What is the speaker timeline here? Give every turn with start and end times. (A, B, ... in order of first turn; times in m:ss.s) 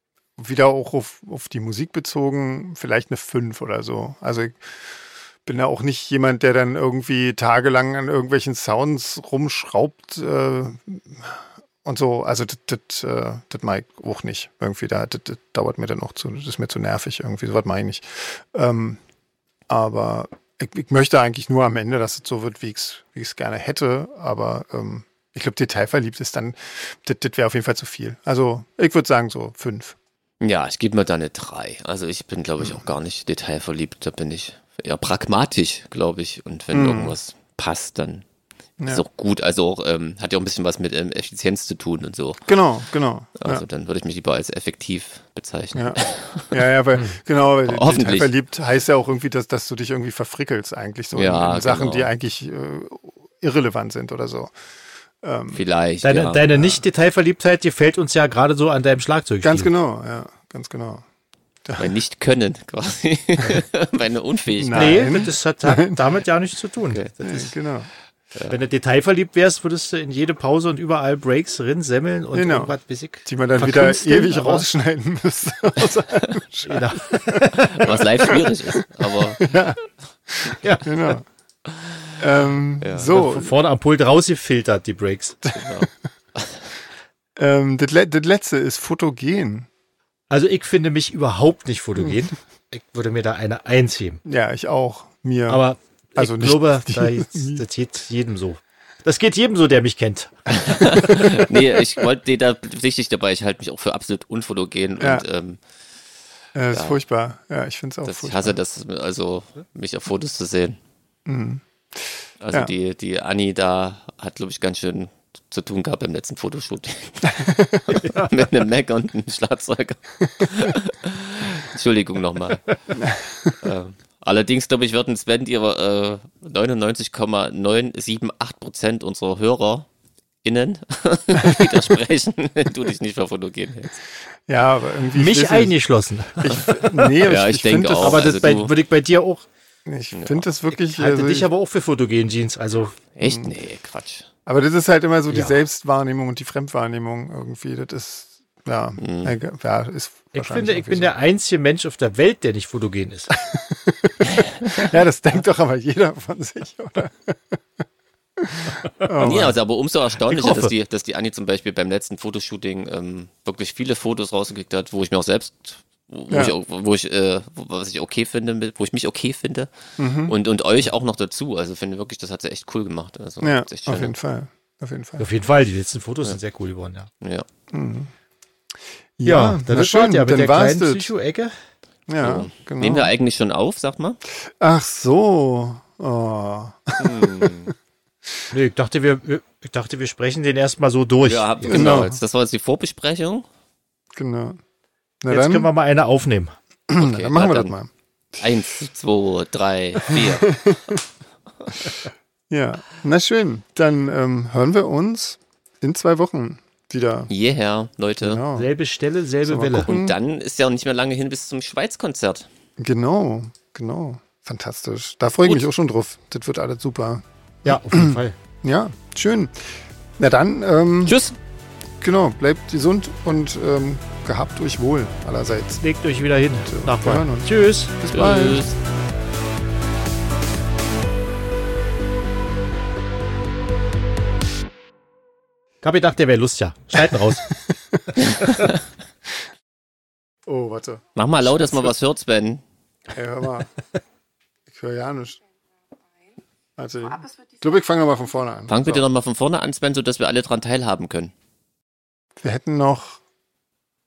0:00.4-0:04.6 A
0:05.4-0:19.0 A
0:19.7-0:30.0 A
0:30.4-0:38.2 B
0:36.7-0:37.2 A
0:38.8-0:39.0 A
0:38.8-0:42.5 B
0:42.5-0:43.6 A
0:43.4-0:46.6 B
0:45.7-0:46.0 A
0:46.5-0:54.5 A
0:47.7-0:48.3 B
0:51.1-0:52.1 B
0:55.2-0:55.6 A
0:55.5-0:56.5 B
0:56.0-0:59.7 C
0:59.4-1:01.0 A
1:01.6-1:01.9 A
1:01.8-1:05.2 B
1:04.6-1:06.0 A
1:04.7-1:07.5 C
1:07.2-1:07.9 A
1:08.5-1:14.6 C
1:12.3-1:21.2 A
1:16.6-1:17.9 C
1:17.7-1:19.5 B
1:20.6-1:21.1 C
1:22.2-1:23.5 A
1:22.8-1:23.1 B
1:23.1-1:25.4 C
1:25.5-1:26.6 B
1:27.4-1:29.7 A
1:30.3-1:34.2 C
1:34.2-1:35.6 A
1:35.5-1:41.0 C
1:36.2-1:37.6 A
1:40.5-1:45.6 B
1:45.0-1:45.2 A
1:46.5-1:48.6 A
1:46.7-1:47.0 B
1:48.0-1:50.8 B
1:51.2-1:52.7 A
1:52.4-2:02.7 B
1:57.3-1:57.9 A
1:57.9-1:58.3 C
2:03.0-2:03.2 A
2:03.5-2:09.9 B
2:10.4-2:14.0 B
2:14.5-2:15.8 A
2:15.1-2:16.7 C
2:16.4-2:18.3 A
2:16.5-2:18.7 B
2:18.0-2:19.4 C
2:19.8-2:21.5 A
2:20.1-2:20.4 B
2:20.7-2:23.0 C
2:23.2-2:24.3 B
2:23.2-2:23.5 A
2:24.4-2:31.1 A
2:29.0-2:29.4 B
2:30.3-2:33.3 C
2:33.3-2:37.6 A
2:34.3-2:34.7 B
2:38.4-2:39.6 A
2:39.2-2:49.7 B
2:40.3-2:40.7 C
2:46.3-2:46.5 A
2:50.0-2:50.3 A
2:50.2-2:54.1 B
2:53.4-2:55.3 A
2:55.2-2:57.1 C
2:57.2-2:57.4 B
2:57.7-2:58.1 A
2:59.2-3:01.1 A
2:59.2-3:01.5 C
3:02.1-3:03.1 A
3:02.2-3:04.2 B
3:04.5-3:07.7 A
3:07.0-3:07.7 B
3:08.5-3:12.0 C
3:11.2-3:13.4 B
3:11.7-3:12.2 A
3:14.1-3:14.6 A
3:15.2-3:15.7 A
3:15.3-3:16.5 C
3:16.9-3:17.9 A
3:17.0-3:17.8 B
3:18.4-3:20.8 B
3:20.1-3:20.9 A
3:22.5-3:27.3 A
3:27.3-3:28.4 B
3:28.2-3:28.7 A
3:28.5-3:29.9 C
3:29.4-3:30.2 A
3:29.8-3:32.5 B
3:32.8-3:41.2 A
3:37.6-3:38.4 C
3:41.0-3:41.3 B
3:42.0-3:45.8 A
3:45.8-3:48.0 C
3:46.6-3:48.6 A
3:48.1-3:48.7 B
3:55.8-3:57.5 C
3:57.5-3:58.2 A
3:58.2-3:58.7 B
4:00.4-4:01.9 A
4:01.2-4:02.6 B
4:03.1-4:03.7 A
4:04.7-4:05.4 A
4:06.8-4:09.0 A
4:08.7-4:11.3 B
4:12.4-4:13.2 A